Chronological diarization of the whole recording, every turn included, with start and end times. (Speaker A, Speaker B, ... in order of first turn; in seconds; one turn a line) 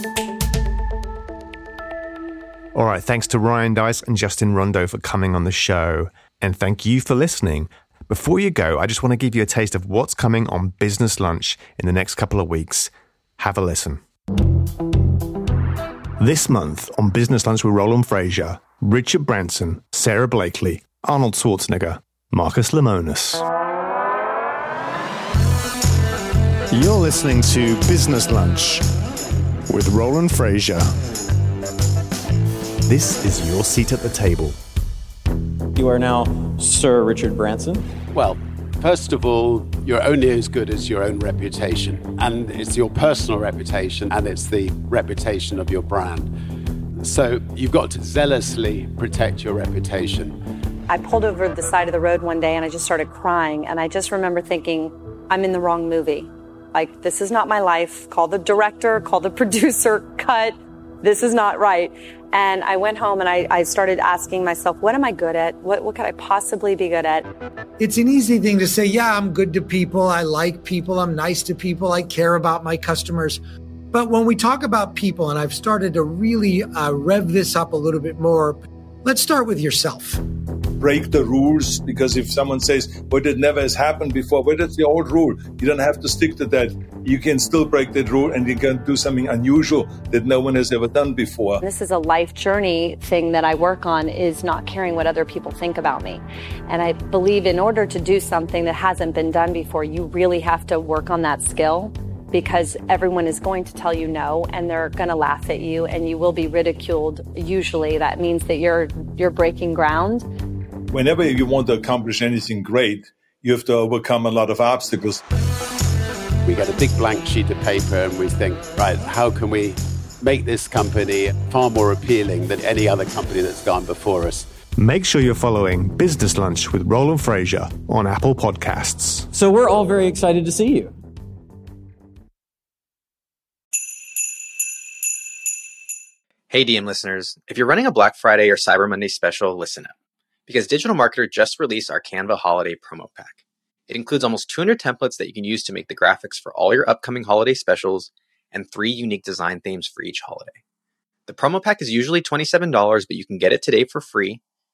Speaker A: 2.7-14.0
Speaker A: 16.2-23.4
Speaker A: 26.7-28.8
Speaker A: 29.7-30.9
Speaker A: 32.9-34.6
Speaker B: 35.7-37.9
Speaker C: 38.1-46.3
Speaker C: 47.0-50.4
Speaker D: 50.9-67.2
Speaker E: 67.8-73.4
Speaker E: 73.9-80.2
Speaker F: 80.8-91.6
Speaker D: 91.6-110.2
Speaker F: 110.9-115.2
Speaker C: 116.5-124.5
Speaker A: 124.8-129.3
Speaker B: 129.3-130.9
Speaker G: 136.5-139.9
Speaker G: 140.5-150.6
Speaker G: 151.3-154.4